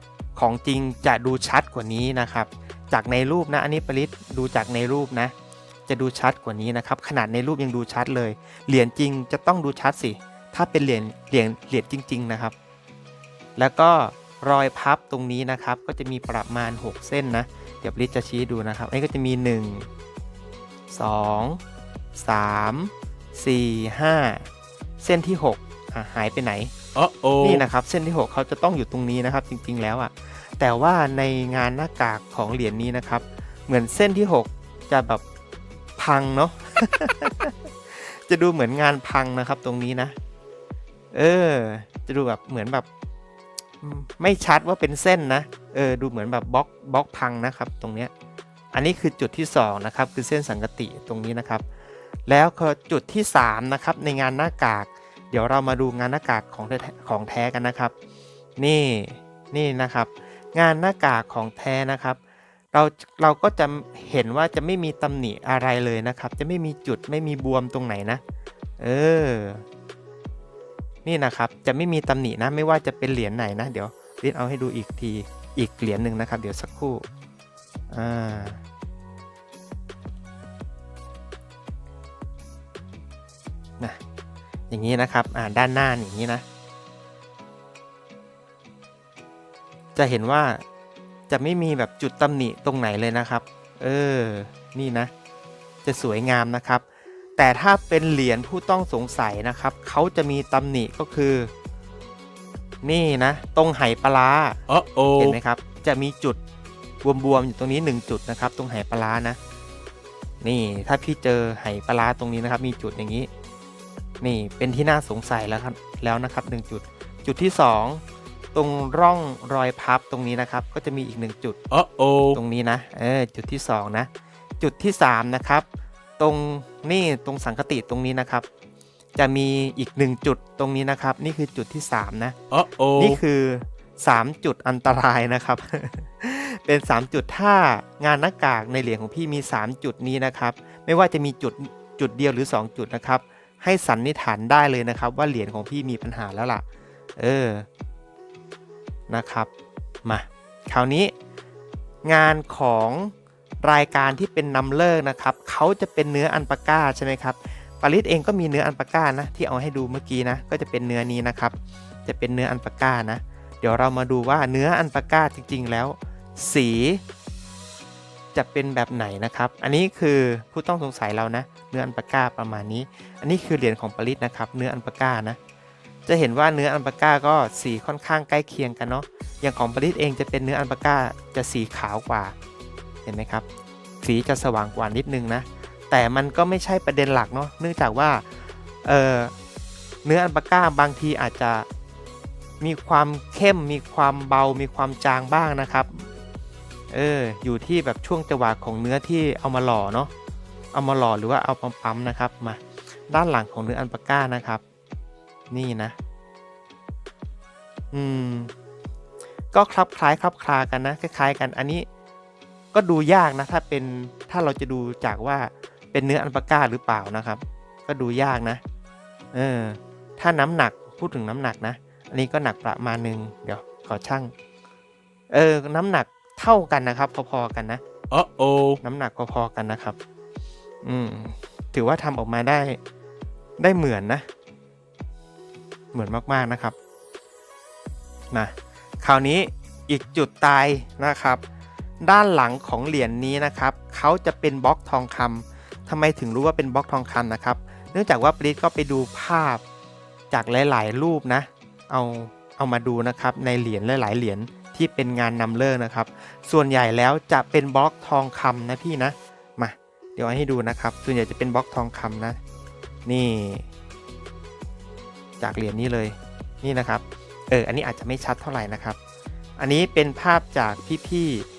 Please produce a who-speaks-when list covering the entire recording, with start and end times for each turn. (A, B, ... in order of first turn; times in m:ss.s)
0:00.4-0:05.3 A
0:05.9-0:12.5 A
0:13.6-0:19.9 A
0:20.9-0:21.6 A
0:22.2-0:24.5 A
0:25.0-0:26.7 A
0:27.0-0:27.6 B
0:27.4-0:35.2 A
0:36.0-0:40.2 A
0:41.1-0:42.9 A
0:43.8-0:48.1 A
0:48.7-0:51.6 A
0:52.3-0:57.9 A
0:58.6-1:02.2 A
1:02.7-1:08.2 A
1:08.8-1:09.6 A
1:11.0-1:17.0 A
1:17.9-1:18.6 A
1:24.7-1:26.4 A
1:30.0-1:30.6 A
1:31.3-1:35.1 A
1:35.8-1:36.8 A
1:37.4-1:41.5 A
1:42.8-1:44.6 A
1:44.7-1:45.4 B
1:45.2-1:46.4 A
1:47.0-1:49.4 A
1:50.4-1:53.3 A
1:54.2-1:58.0 A
1:58.5-2:01.6 A
2:01.7-2:02.4 B
2:02.3-2:05.7 A
2:06.2-2:08.5 A
2:09.2-2:12.4 A
2:12.5-2:13.2 B
2:13.0-2:26.6 A
2:27.2-2:27.7 A
2:29.1-2:29.5 A
2:30.0-2:31.1 A
2:32.0-2:41.5 A
2:42.1-2:47.0 A
2:48.3-2:55.4 A
2:56.1-3:02.4 A
3:03.1-3:03.4 A
3:04.0-3:08.3 A
3:08.8-3:09.3 A
3:10.0-3:11.7 A
3:12.6-3:16.1 A
3:16.9-3:20.1 A
3:20.7-3:24.6 A
3:25.5-3:26.0 A
3:27.9-3:28.5 A
3:29.5-3:31.9 A
3:32.7-3:38.6 A
3:39.3-3:44.3 A
3:45.3-3:47.8 A
3:48.1-3:48.8 B
3:48.8-3:50.0 A
3:50.8-3:52.8 A
3:53.6-3:54.3 A
3:55.9-3:56.8 A
3:58.3-4:01.4 A
4:02.0-4:09.6 A
4:10.3-4:22.4 A
4:23.1-4:23.7 A
4:25.4-4:29.0 A
4:29.6-4:31.5 A